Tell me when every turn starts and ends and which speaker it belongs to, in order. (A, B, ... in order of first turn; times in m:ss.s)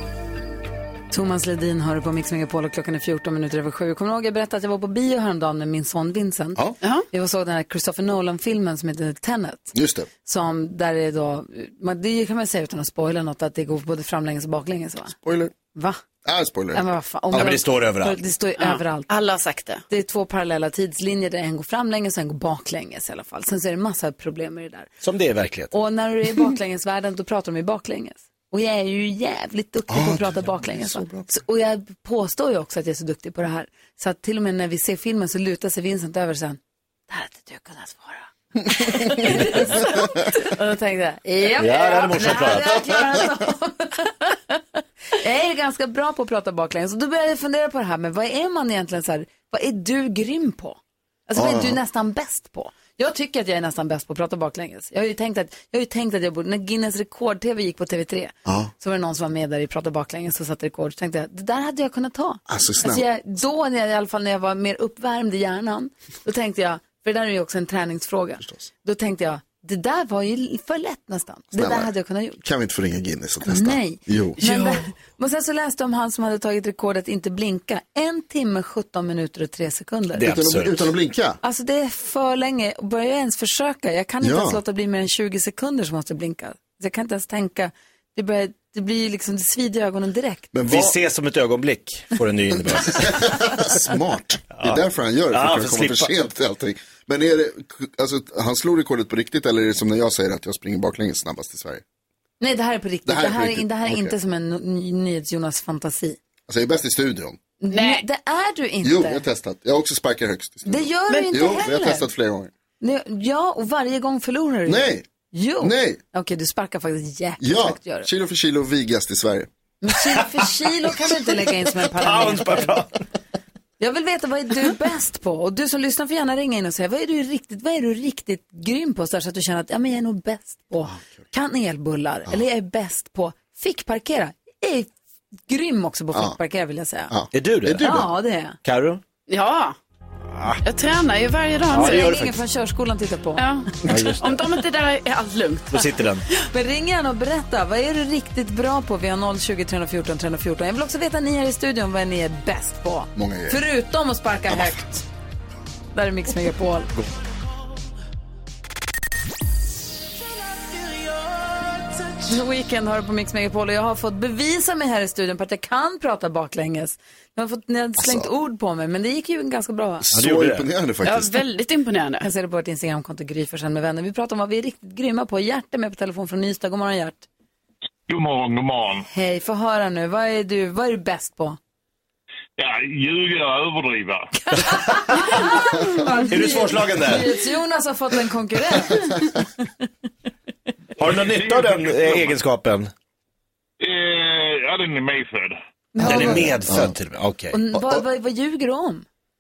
0:01.1-0:15.1 A
0:06.8-0:07.0 B
0:09.7-0:10.1 C
0:15.2-0:15.5 C
0:15.7-0:16.0 A
0:16.2-0:16.8 C
0:16.7-0:19.1 A
0:17.3-0:18.2 D
0:18.6-0:19.8 B
0:19.9-0:24.9 A
0:25.0-0:25.7 D
0:25.7-1:12.4 A
0:29.9-0:31.3 C
0:39.1-0:40.1 C
0:41.6-0:42.9 D
0:51.4-0:51.8 C
0:58.4-0:58.7 C
1:02.5-1:03.0 C
1:08.4-1:08.7 C
1:11.5-1:14.4 C
1:13.4-1:20.3 A
1:20.1-1:20.9 D
1:20.2-1:21.4 C
1:21.4-1:30.5 A
1:24.2-1:24.6 C
1:30.5-1:30.9 C
1:30.7-1:33.5 D
1:32.8-1:41.8 C
1:34.5-1:36.1 D
1:42.4-1:46.2 A
1:43.1-1:44.1 C
1:46.5-1:47.4 C
1:47.6-1:49.2 A
1:47.7-1:48.0 B
1:48.8-1:52.5 C
1:50.6-1:52.1 A
1:52.8-1:58.1 A
1:54.6-1:55.0 C
1:55.6-1:56.0 C
1:57.4-1:59.5 C
1:59.8-2:02.8 A
2:01.8-2:02.9 D
2:03.8-2:14.9 A
2:15.5-2:17.1 A
2:17.1-2:18.0 C
2:17.3-2:18.1 D
2:17.8-2:18.6 A
2:18.6-2:19.0 D
2:19.3-2:19.8 B
2:20.3-2:20.6 D
2:20.6-2:22.1 B
2:21.7-2:22.4 D
2:21.7-2:23.9 A
2:23.4-2:25.9 B
2:23.9-2:24.2 C
2:23.9-2:24.2 D
2:25.7-2:26.2 D
2:26.5-2:35.0 A
2:33.2-2:33.6 C
2:35.9-2:36.9 A
2:42.2-2:50.0 A
2:48.0-2:48.3 C
2:50.0-2:51.4 C
2:50.1-2:50.7 D
2:51.0-2:52.3 B
2:52.2-2:57.2 A
2:58.1-2:59.0 E
2:59.1-3:01.6 A
3:02.6-3:04.3 E
3:04.5-3:09.5 A
3:06.3-3:07.3 D
3:11.0-3:12.9 D
3:11.0-3:12.3 E
3:13.8-3:15.6 E
3:15.9-3:16.5 A
3:16.0-3:16.9 C
3:16.0-3:17.6 D
3:17.5-3:19.0 A